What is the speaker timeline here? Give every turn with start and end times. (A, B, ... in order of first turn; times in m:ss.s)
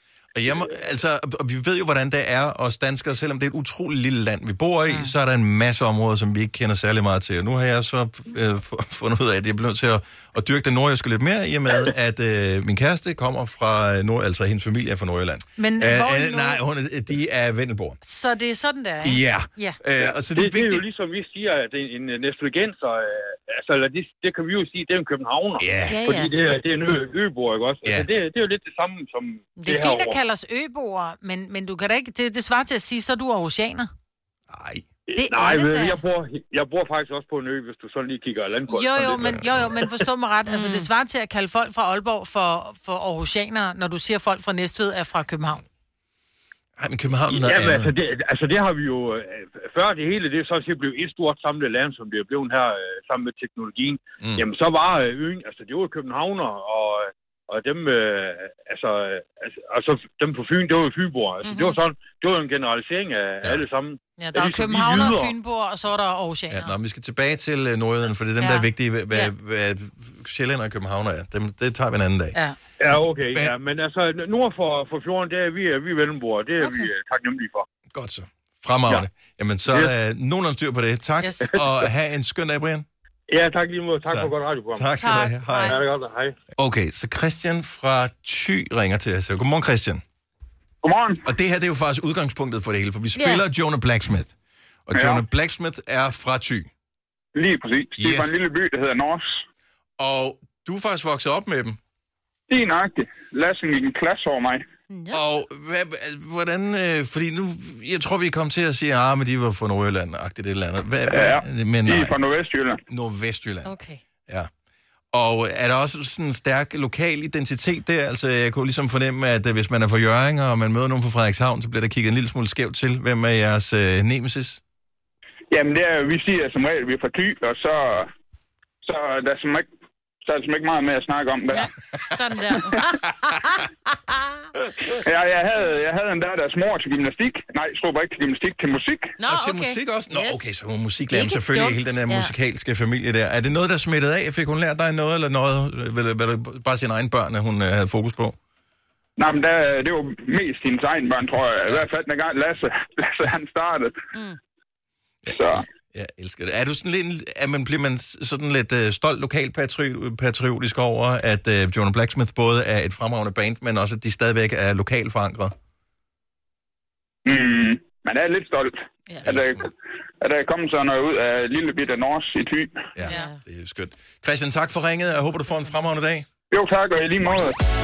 0:00.4-0:18.0 A
0:00.4-0:00.7 B
0:15.6-0:16.6 C
0:18.0-0:19.8 C
0:19.0-0:20.8 A
0:20.0-0:30.2 B
0:25.6-0:26.0 A
0:25.9-0:26.3 D
0:29.6-0:33.9 C
0:34.5-0:34.8 A
0:35.1-0:39.8 B
0:35.2-0:35.9 C
0:35.4-0:35.9 D
0:38.7-0:45.6 C
0:39.2-0:39.6 A
0:40.5-0:40.9 D
0:46.8-0:47.9 A
0:47.3-1:05.3 B
1:01.4-1:01.8 D
1:04.2-1:06.7 C
1:06.5-1:12.4 A
1:08.4-1:09.3 C
1:12.8-1:17.7 B
1:16.6-1:16.9 C
1:17.9-1:22.9 A
1:21.2-1:21.5 C
1:23.3-1:26.4 B
1:24.1-1:25.8 A
1:25.0-1:25.8 C
1:26.6-1:30.0 A
1:30.8-1:31.2 E
1:31.2-1:34.3 A
1:33.2-1:33.4 D
1:34.9-1:36.7 A
1:34.9-1:35.2 E
1:37.4-1:39.4 E
1:38.0-1:38.3 A
1:40.0-1:41.8 A
1:42.5-1:44.6 E
1:44.9-1:45.2 D
1:45.1-1:52.2 A
1:51.1-1:52.8 E
1:52.9-1:53.8 A
1:53.6-1:54.0 D
1:55.1-2:04.6 A
2:05.5-2:08.1 E
2:08.8-2:09.7 E
2:10.2-2:11.7 E
2:11.5-2:14.4 D
2:12.5-2:12.8 E
2:14.9-2:19.2 E
2:19.2-2:20.4 D
2:19.3-2:28.4 A
2:21.1-2:22.3 D
2:29.2-2:33.9 E
2:35.3-2:45.5 A
2:35.3-2:35.7 E
2:47.3-2:52.9 E
2:49.2-2:49.7 A
2:53.0-2:56.3 A
2:53.0-2:53.4 D
2:56.5-2:57.6 E